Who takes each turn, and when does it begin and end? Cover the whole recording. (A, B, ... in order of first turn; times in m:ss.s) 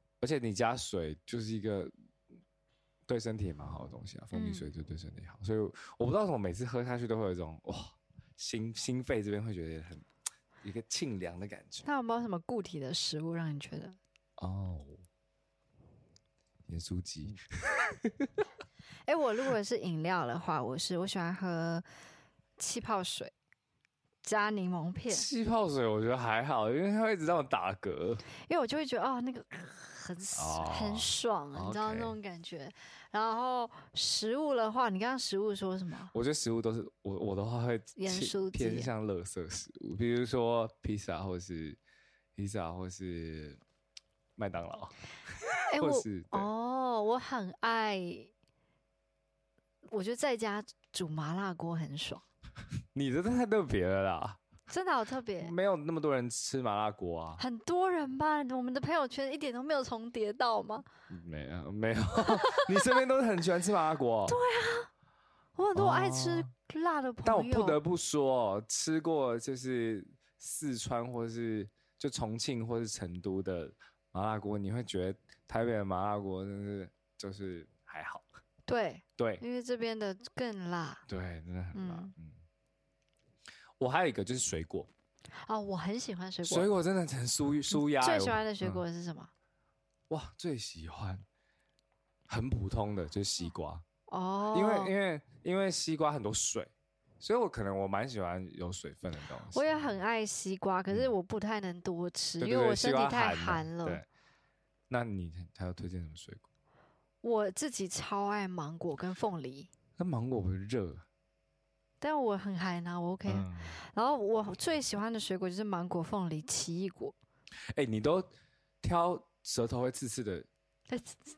0:00.2-0:01.9 A
0:03.1-0:10.0 A
0:04.3-0:04.7 B
0:10.6-0:11.8 A
0:11.8-0:14.0 B
0:14.4-0:15.0 A
0:16.7-0:18.3 A
0:19.1-0:21.8 B
0:22.6-0:23.3 B
0:24.2-0:25.2 B
0:25.1-0:28.2 A
0:28.4-0:36.1 B
0:30.3-0:32.1 A
0:36.1-0:41.8 A
0:38.0-0:38.9 B
0:42.4-0:43.6 A
0:44.4-0:46.5 A
0:45.7-0:48.3 B
0:49.9-0:52.2 B
0:52.9-0:54.4 A
0:54.7-0:55.5 B
0:55.4-0:57.4 A
0:57.4-1:00.9 B
1:01.1-1:04.4 A
1:02.2-1:02.9 B
1:04.3-1:04.9 B
1:05.6-1:07.8 B
1:05.7-1:06.5 A
1:07.2-1:18.2 A
1:18.7-1:21.0 B
1:19.2-1:19.4 A
1:21.1-1:22.4 A
1:21.7-1:22.1 B
1:23.8-1:24.9 A
1:25.4-1:26.7 B
1:26.4-1:28.8 A
1:27.7-1:29.3 B
1:30.1-1:31.2 A
1:32.3-1:33.8 A
1:34.1-1:34.9 B
1:34.5-1:39.8 A
1:39.5-1:44.0 B
1:42.4-1:44.0 A
1:44.9-1:46.4 A
1:47.2-1:49.7 B
1:50.0-1:51.0 A
1:52.0-1:57.1 B
1:53.3-1:53.8 A
1:57.7-1:58.3 A
1:58.8-2:00.5 A
2:00.9-2:01.2 B